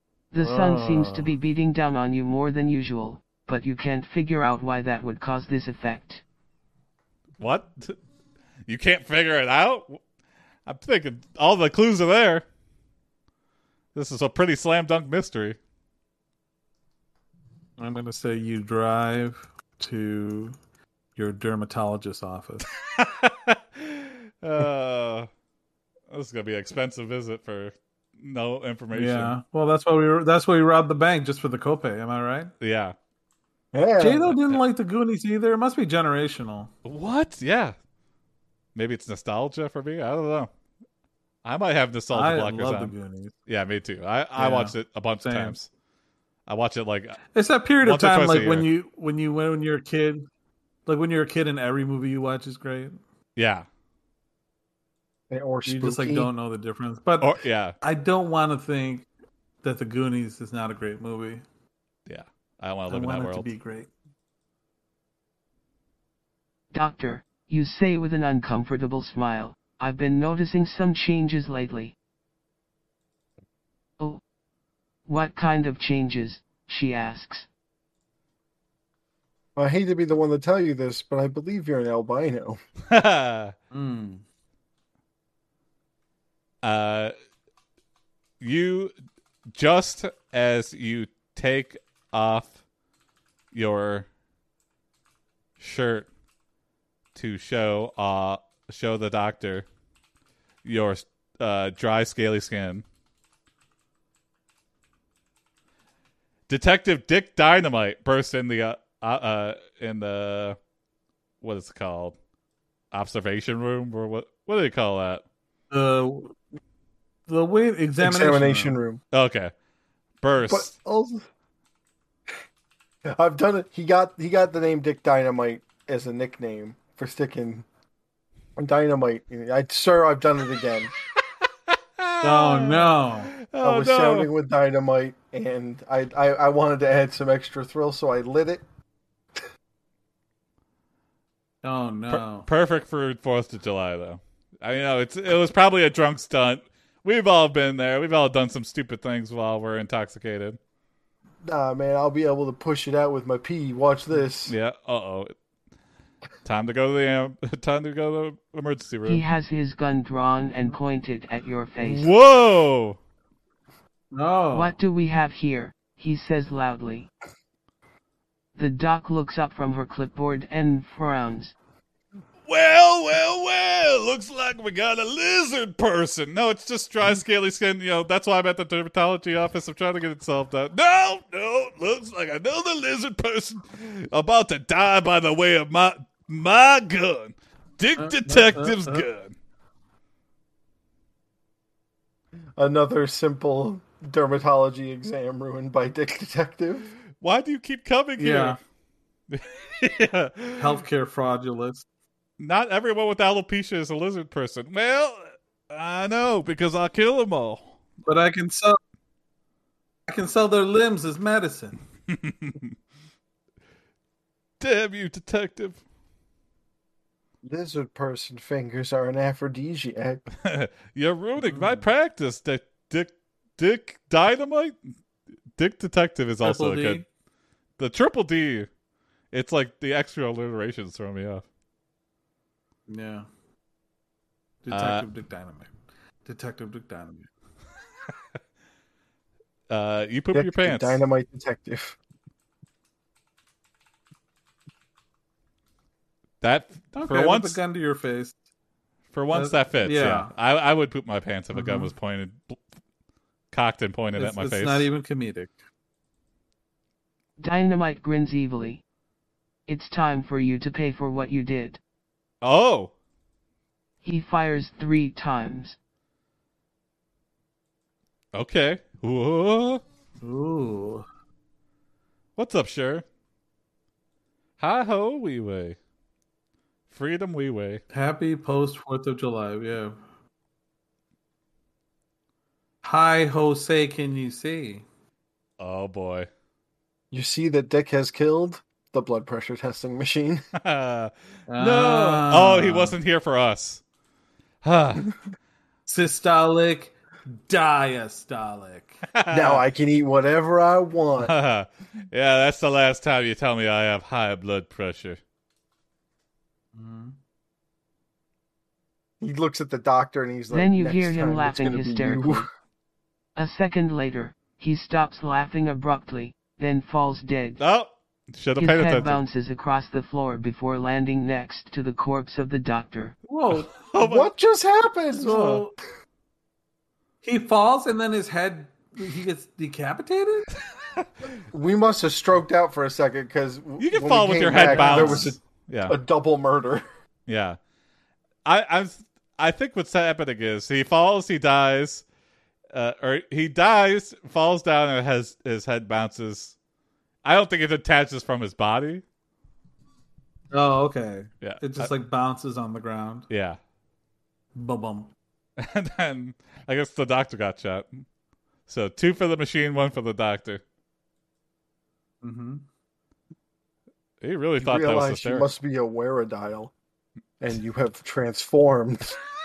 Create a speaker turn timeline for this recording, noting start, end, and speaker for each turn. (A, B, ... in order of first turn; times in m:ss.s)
0:00.3-0:06.2 A
0:00.4-0:01.3 B
0:07.4-0:08.0 C
0:08.7-0:10.0 C
0:10.6-0:12.4 C
0:13.9-0:15.6 C
0:17.8-0:20.6 B
0:21.2-0:22.7 B
0:22.9-0:25.3 C
0:26.1-0:29.3 C
0:28.9-0:32.5 B
0:32.6-0:32.9 C
0:33.7-0:34.4 D
0:34.0-0:36.7 B
0:34.3-0:34.6 C
0:36.8-0:37.7 C
0:38.7-0:40.5 C
0:41.4-0:42.9 C
0:42.1-0:43.3 B
0:43.5-0:45.7 C
0:44.4-0:45.6 B
0:46.5-0:47.2 C
0:47.3-0:50.3 B
0:47.8-0:48.7 C
0:50.8-0:53.0 B
0:53.4-0:53.6 C
0:55.3-0:56.3 D
0:55.6-0:59.0 B
0:57.2-0:57.8 C
0:59.6-1:01.4 B
1:02.0-1:03.5 C
1:02.9-1:03.9 B
1:06.7-1:11.9 A
1:15.1-1:17.5 A
1:19.6-1:22.6 D
1:22.9-1:23.5 C
1:23.7-1:24.2 B
1:26.6-1:27.1 C
1:28.4-1:28.9 C
1:29.5-1:32.5 C
1:33.5-1:34.1 C
1:35.6-1:36.1 C
1:37.1-1:39.6 C
1:40.6-1:42.8 C
1:46.5-1:50.6 C
1:51.4-1:52.2 C
1:52.9-1:55.2 C
1:55.7-1:56.4 B
1:57.3-1:58.8 B
1:58.0-1:59.0 D
1:59.1-1:59.5 C
2:00.2-2:00.7 C
2:00.4-2:01.3 D
2:03.0-2:07.6 D
2:08.6-2:10.9 D
2:11.7-2:14.3 C
2:12.2-2:13.3 B
2:13.6-2:18.6 D
2:21.6-2:22.5 B
2:22.1-2:30.6 C
2:31.4-2:34.5 D
2:34.4-2:35.3 C
2:36.4-2:39.2 C
2:39.0-2:42.1 A
2:41.8-2:43.0 C
2:44.1-2:44.8 B
2:44.5-2:47.1 A
2:48.5-2:51.5 A
2:52.5-3:09.3 C
3:08.0-3:09.0 B
3:12.6-3:16.9 D
3:17.2-3:18.6 C
3:18.2-3:18.6 B
3:19.3-3:20.8 C
3:20.6-3:21.8 B
3:22.4-3:27.8 C
3:28.0-3:28.8 B
3:30.1-3:31.8 B
3:32.1-3:32.7 C
3:34.6-3:35.8 C
3:37.4-3:40.2 D
3:40.4-3:44.7 C
3:41.4-3:41.9 B
3:45.6-3:47.0 C
3:46.4-3:47.0 B
3:47.8-3:48.7 C
3:49.3-3:51.4 C
3:52.9-3:53.2 B
3:54.6-3:55.7 B
3:54.7-3:55.1 C
3:56.2-3:57.3 B
3:59.7-4:01.0 C
4:00.3-4:02.0 D
4:06.4-4:07.6 C
4:06.9-4:08.3 B
4:09.1-4:12.6 C
4:09.3-4:10.3 B
4:11.5-4:11.9 B
4:13.5-4:14.9 C
4:14.2-4:15.5 B
4:17.4-4:18.8 A
4:19.7-4:21.8 A
4:22.4-4:22.9 C
4:24.0-4:25.8 A
4:28.3-4:29.8 C
4:30.2-4:31.0 B
4:32.4-4:33.0 C
4:34.6-4:35.8 C
4:36.9-4:37.8 C
4:37.9-4:40.0 B
4:42.8-4:44.8 B
4:45.6-4:46.3 C
4:47.1-4:50.4 D
4:50.6-4:53.8 C
4:51.5-4:52.9 B
4:54.6-4:55.1 C
4:55.8-4:59.0 B
4:59.1-4:59.6 C
4:59.3-5:01.3 D
5:01.2-5:05.2 C
5:06.7-5:07.2 B
5:09.2-5:12.5 D
5:10.5-5:12.5 A
5:13.4-5:17.6 A
5:17.6-5:19.2 C
5:18.6-5:23.2 A
5:23.3-5:23.8 B
5:23.7-5:24.3 C
5:24.0-5:25.6 D
5:25.2-5:25.7 B
5:25.2-5:25.6 C
5:27.2-5:30.5 B
5:31.5-5:36.8 D
5:33.8-5:35.9 C
5:34.6-5:35.3 B
5:37.3-5:37.6 C
5:38.4-5:42.0 C
5:42.7-5:46.6 C
5:47.2-5:49.0 C
5:50.5-5:53.3 B
5:51.4-5:51.9 C
5:53.3-5:53.6 C
5:54.5-5:55.1 B
5:55.6-5:58.0 C
5:58.7-6:00.6 C
6:02.2-6:02.6 B
6:04.2-6:05.5 C
6:04.6-6:06.7 D
6:07.4-6:09.2 D